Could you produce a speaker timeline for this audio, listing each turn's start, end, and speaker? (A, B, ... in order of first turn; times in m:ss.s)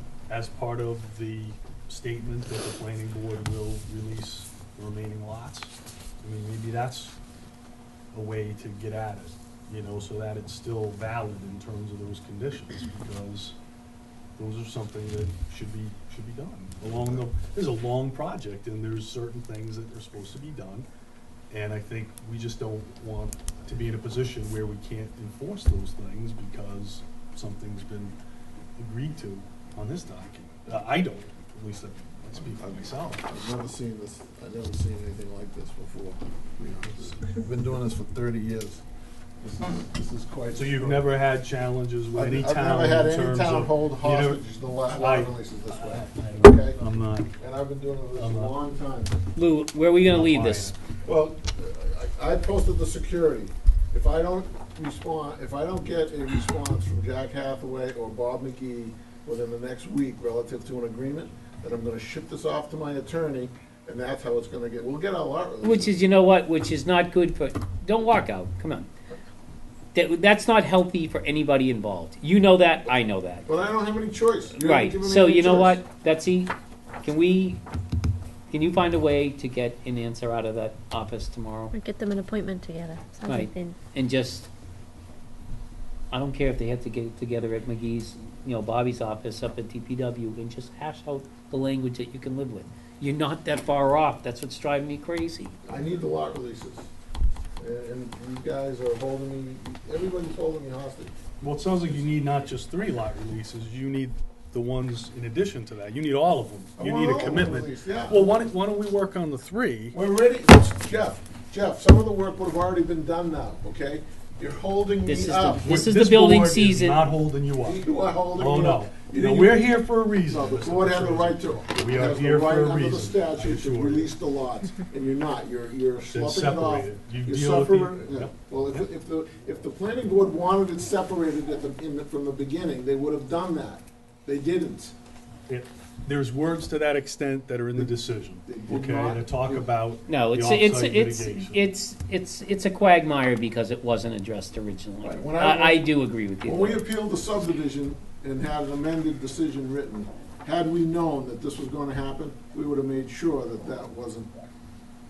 0:00.3-0:07.2 A
0:08.1-0:13.6 A
0:14.4-0:20.9 A
0:16.9-0:17.2 B
0:21.5-0:28.2 A
0:28.8-0:33.2 A
0:32.4-0:38.8 B
0:39.4-0:41.1 B
0:40.5-0:47.4 A
0:42.1-0:46.8 B
0:47.4-0:49.1 B
0:48.2-0:48.5 A
0:49.4-0:50.8 C
0:50.1-0:50.8 A
0:51.0-1:06.0 B
1:05.6-1:08.9 C
1:09.9-1:13.5 C
1:13.5-1:15.8 B
1:14.6-1:17.6 C
1:18.5-1:21.7 C
1:21.7-1:23.8 D
1:23.2-1:24.5 C
1:26.1-1:35.6 C
1:35.7-1:36.9 B
1:37.6-1:41.1 B
1:41.4-1:50.0 A
1:46.8-1:48.4 B
1:49.9-1:55.8 B
1:55.1-1:57.0 C
1:55.6-2:04.1 A
1:57.6-2:14.9 B
2:06.1-2:08.8 A
2:15.5-2:21.7 A
2:18.4-2:19.7 B
2:20.1-2:26.8 C
2:25.0-2:25.9 B
2:26.4-2:34.3 B